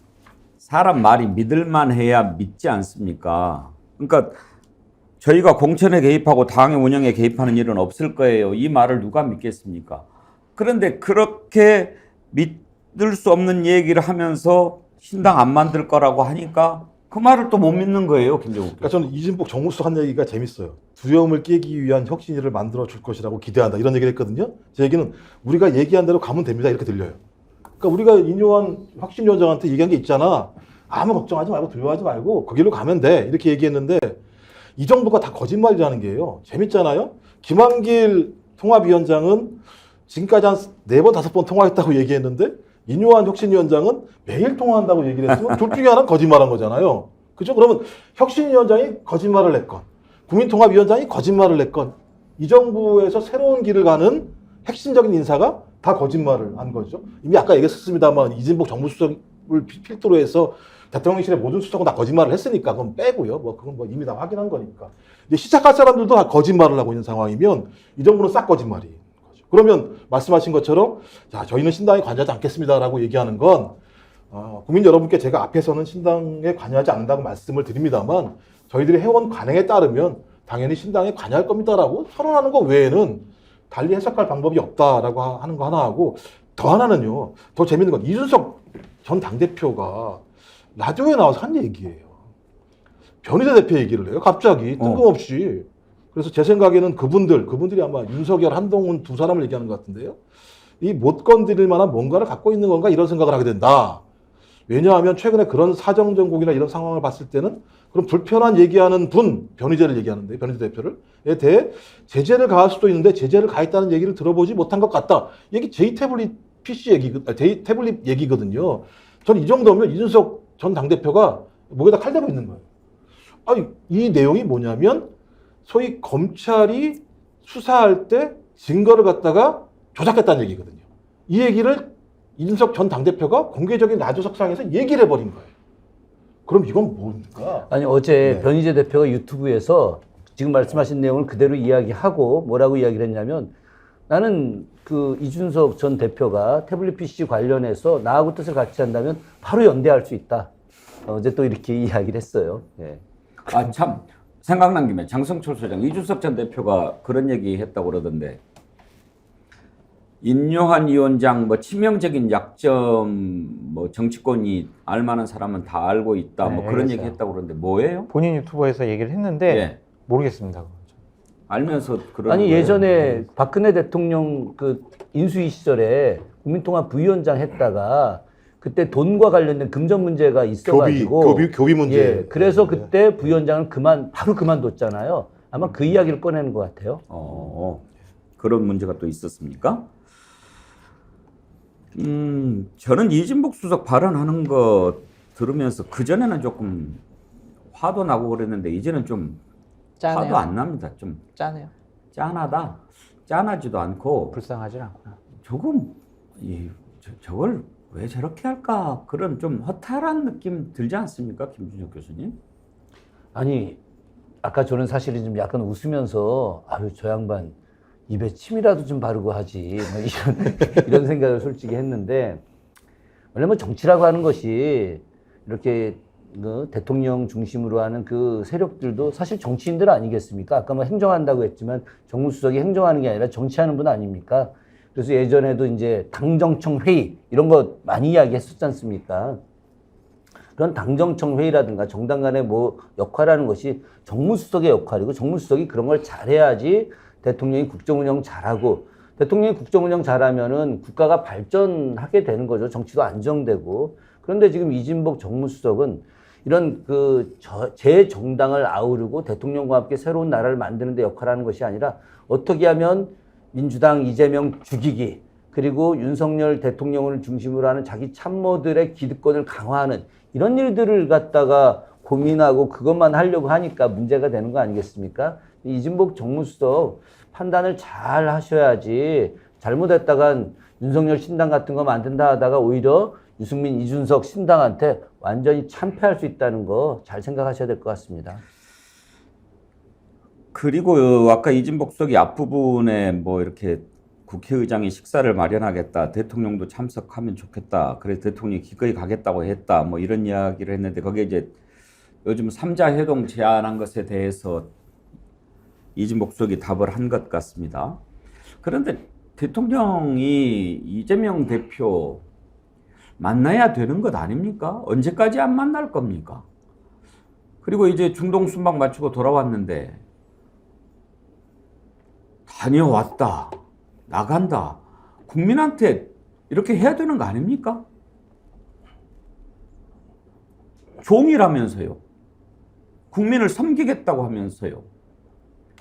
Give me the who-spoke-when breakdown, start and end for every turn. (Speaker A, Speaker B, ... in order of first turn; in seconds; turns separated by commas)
Speaker A: 0.6-4.4, Speaker A: 5.2-10.1, Speaker A: 10.6-19.1, Speaker B: 18.8-27.2, Speaker B: 27.8-34.2, Speaker B: 34.8-73.8, Speaker B: 74.3-90.2, Speaker B: 90.8-92.1, Speaker B: 93.2-100.2, Speaker A: 94.8-95.0, Speaker B: 100.8-104.0, Speaker B: 104.7-122.6, Speaker B: 123.5-125.1, Speaker B: 125.7-135.5, Speaker B: 136.5-138.5, Speaker C: 137.7-143.5, Speaker C: 144.1-150.5, Speaker C: 151.1-153.0, Speaker A: 153.5-158.4, Speaker A: 160.2-168.1, Speaker D: 166.4-167.2, Speaker D: 168.1-170.9, Speaker A: 169.5-169.8, Speaker A: 171.5-173.2, Speaker C: 172.3-187.0, Speaker B: 180.7-182.9, Speaker A: 187.1-187.8, Speaker A: 188.4-189.9, Speaker A: 191.9-197.0, Speaker A: 197.7-199.4, Speaker D: 200.0-200.5, Speaker A: 200.1-201.2, Speaker D: 201.3-201.7, Speaker A: 202.1-204.4, Speaker D: 204.3-205.2, Speaker A: 205.4-212.4, Speaker C: 213.3-213.8, Speaker C: 214.4-217.6, Speaker C: 218.1-222.4, Speaker C: 223.3-239.4, Speaker C: 240.6-288.4, Speaker A: 290.5-301.6, Speaker A: 302.2-304.7, Speaker A: 305.9-308.0, Speaker A: 308.6-312.2, Speaker A: 313.2-316.4, Speaker A: 317.6-320.0, Speaker A: 322.5-323.6, Speaker A: 324.1-327.9, Speaker A: 331.0-332.0, Speaker A: 333.1-334.9